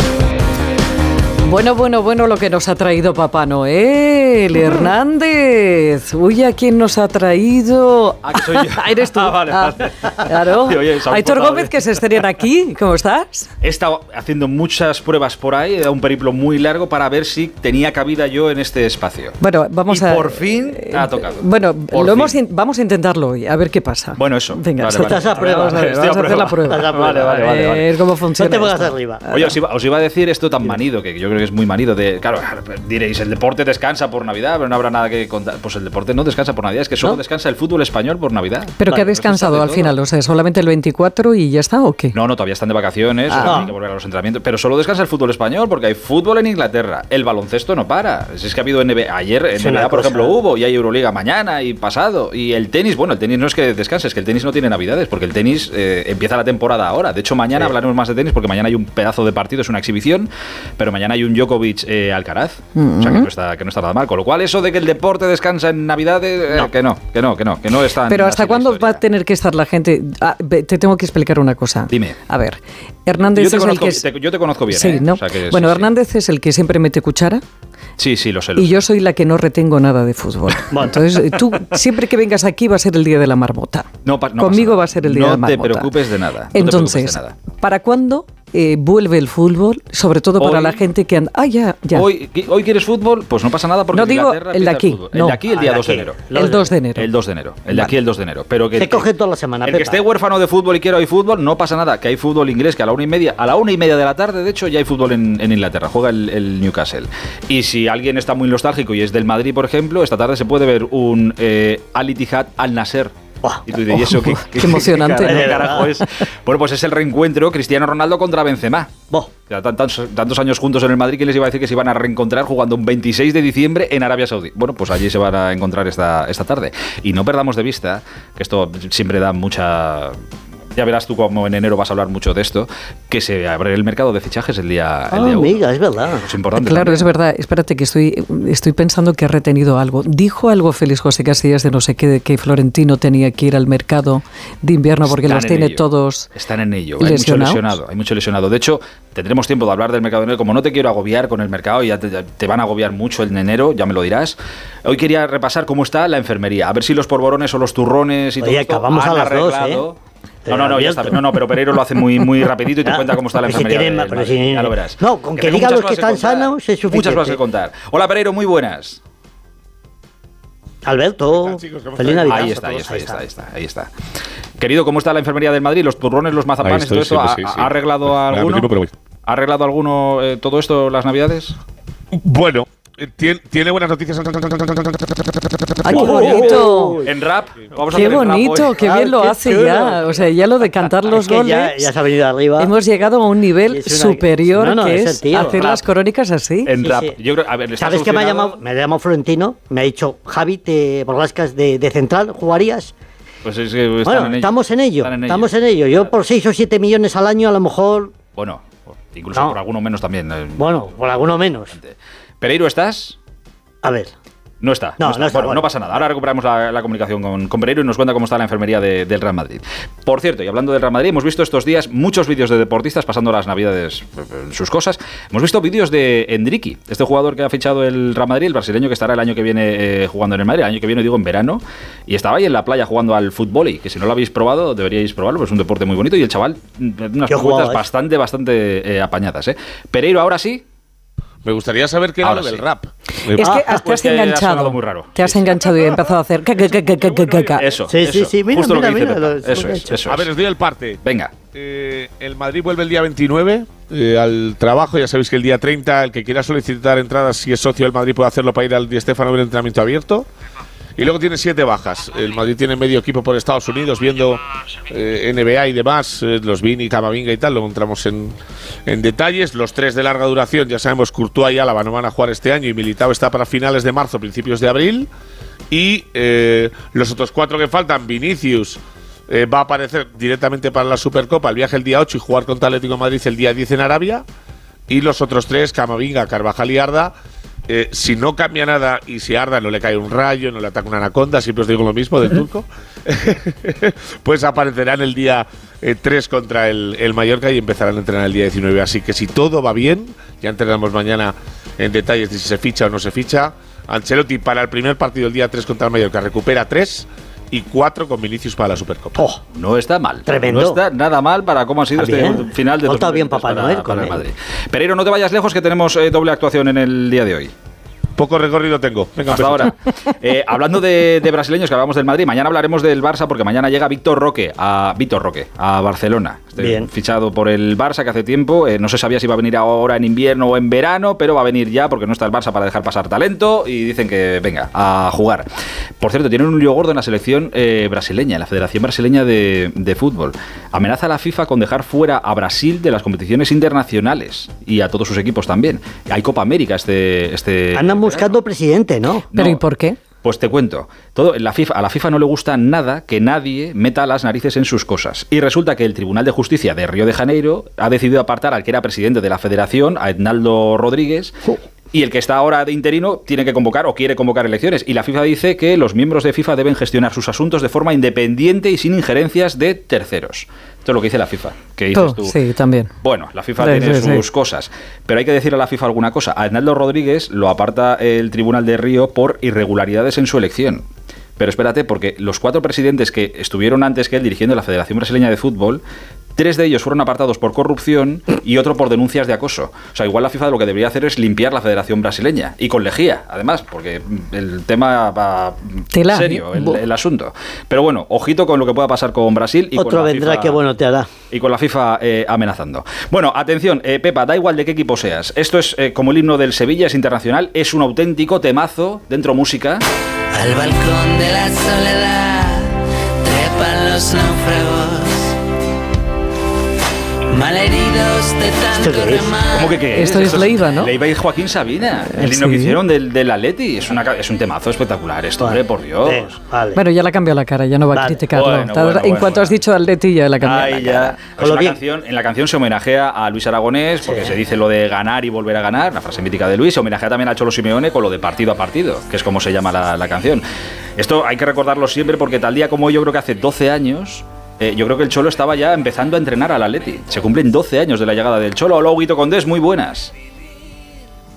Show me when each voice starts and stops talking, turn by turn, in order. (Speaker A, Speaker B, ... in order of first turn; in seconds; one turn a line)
Speaker A: 1.4-13.5
Speaker B: 8.2-12.0
Speaker B: 13.6-19.4
Speaker A: 19.4-29.6
Speaker B: 19.9-22.4
Speaker B: 24.2-27.9
Speaker C: 25.0-25.8
Speaker C: 26.7-27.5
Speaker C: 28.4-29.2
Speaker B: 29.3-40.0
Speaker A: 38.8-42.1
Speaker B: 42.1-69.0
Speaker A: 43.3-43.7
Speaker C: 43.4-43.7
Speaker C: 49.5-50.4
Speaker A: 62.8-63.3
Speaker A: 68.1-74.1
Speaker B: 71.9-72.2
Speaker B: 73.3-75.9
Speaker A: 74.7-77.4
Speaker B: 78.0-78.9
Speaker A: 78.6-85.9
Speaker C: 80.7-81.0
Speaker B: 84.0-87.4
Speaker A: 86.5-92.1
Speaker B: 90.4-90.9
Speaker B: 91.9-96.3
Speaker A: 93.9-95.4
Speaker C: 95.5-96.7
Speaker A: 96.3-97.1
Speaker B: 97.0-99.1
Speaker C: 98.8-100.0
Speaker B: 99.7-113.1
Speaker B: 113.7-118.9
Speaker A: 114.2-116.1
Speaker C: 115.2-115.8
Speaker B: 119.5-130.2
Speaker B: 130.8-137.1
Speaker C: 135.1-136.3
Speaker A: 136.6-146.3
Speaker B: 145.0-160.0
Speaker A: 147.0-147.8
Speaker C: 158.4-159.8
Speaker C: 160.5-161.2
Speaker B: 160.5-169.0
Speaker C: 162.8-167.4
Speaker C: 170.8-173.2
Speaker D: 171.3-173.0
Speaker B: 172.2-173.9
Speaker B: 174.6-178.7
Speaker D: 176.6-178.9
Speaker B: 179.3-181.6
Speaker D: 182.1-186.2
Speaker A: 185.8-187.0
Speaker C: 185.9-187.1
Speaker B: 186.0-188.9
Speaker A: 187.9-191.9
Speaker C: 188.9-190.0
Speaker C: 191.1-192.7
Speaker A: 192.6-196.7
Speaker C: 193.7-195.7
Speaker B: 195.4-195.8
Speaker B: 196.7-198.6
Speaker C: 196.8-197.2
Speaker C: 197.8-202.9
Speaker B: 203.4-205.6
Speaker C: 204.0-208.1
Speaker B: 208.3-213.2
Speaker C: 209.3-209.6
Speaker C: 210.6-211.8
Speaker C: 213.8-214.1
Speaker B: 214.6-240.6
Speaker C: 215.0-215.7
Speaker C: 237.3-237.9
Speaker D: 241.4-243.5
Speaker B: 242.2-242.7
Speaker A: 243.3-247.7
Speaker C: 243.4-243.8
Speaker B: 243.8-245.8
Speaker D: 246.7-247.5
Speaker B: 247.6-250.3
Speaker C: 247.9-250.1
Speaker D: 250.1-251.0
Speaker B: 251.0-251.3
Speaker D: 251.5-260.3
Speaker D: 261.0-275.1
Speaker D: 275.7-284.2
Speaker D: 284.9-287.1
Speaker D: 287.7-309.3
Speaker B: 309.5-317.5
Speaker C: 310.3-310.8
Speaker C: 311.9-314.3
Speaker D: 318.2-319.7
Speaker B: 319.3-335.5
Speaker C: 326.6-326.9
Speaker B: 336.0-348.4
Speaker C: 347.8-349.3
Speaker B: 349.3-349.6
Speaker A: 349.3-350.0
Speaker B: 350.2-361.4
Speaker B: 361.9-372.4
Speaker A: 371.9-372.9
Speaker B: 373.0-380.9
Speaker A: 373.6-374.2
Speaker B: 381.4-385.8
Speaker B: 386.4-400.6
Speaker A: 395.9-396.8
Speaker C: 399.7-401.1
Speaker B: 401.3-409.8
Speaker E: 410.5-412.7
Speaker E: 413.2-415.3
Speaker E: 417.4-419.7
Speaker C: 418.8-419.3
Speaker B: 419.5-426.3
Speaker A: 419.9-420.9
Speaker A: 422.1-422.8
Speaker C: 425.4-426.8
Speaker A: 426.7-431.2
Speaker C: 427.9-428.2
Speaker B: 428.3-429.6
Speaker B: 430.4-440.4
Speaker C: 431.4-431.8
Speaker C: 434.0-434.3
Speaker B: 441.0-450.1